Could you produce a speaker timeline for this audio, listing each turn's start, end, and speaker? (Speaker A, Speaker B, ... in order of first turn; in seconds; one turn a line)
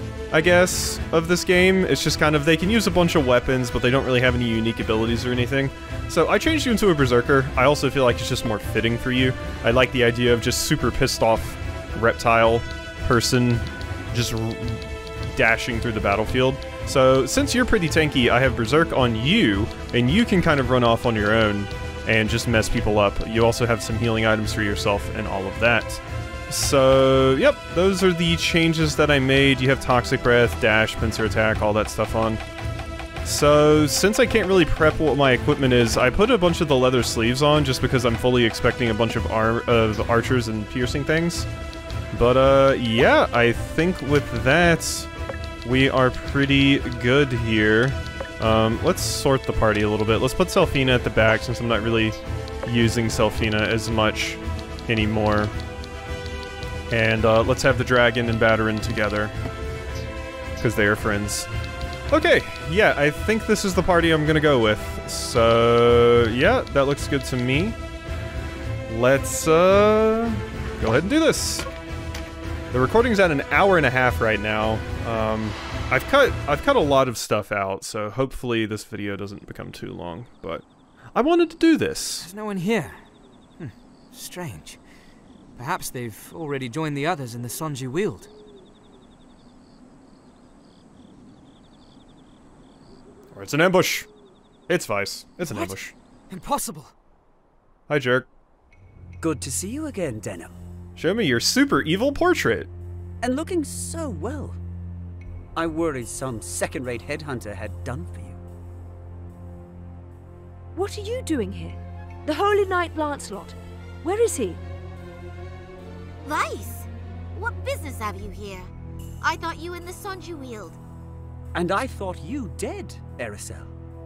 Speaker A: 0.3-32.4
Speaker A: 33.2-41.5
Speaker A: 42.1-45.1
Speaker A: 45.6-55.5
Speaker A: 56.9-59.4
Speaker A: 60.6-61.5
Speaker A: 62.1-67.8
Speaker A: 68.9-71.7
Speaker A: 72.7-80.6
Speaker A: 81.2-82.3
Speaker B: 82.2-83.0
Speaker B: 83.6-84.8
Speaker B: 85.6-88.3
Speaker A: 93.3-94.1
Speaker A: 94.7-96.0
Speaker B: 95.4-95.8
Speaker B: 96.3-96.9
Speaker A: 97.9-98.3
Speaker C: 99.2-100.5
Speaker A: 101.0-102.7
Speaker C: 103.2-104.6
Speaker C: 105.5-108.4
Speaker D: 110.7-114.6
Speaker E: 116.2-118.7
Speaker E: 119.2-120.8
Speaker C: 121.5-123.7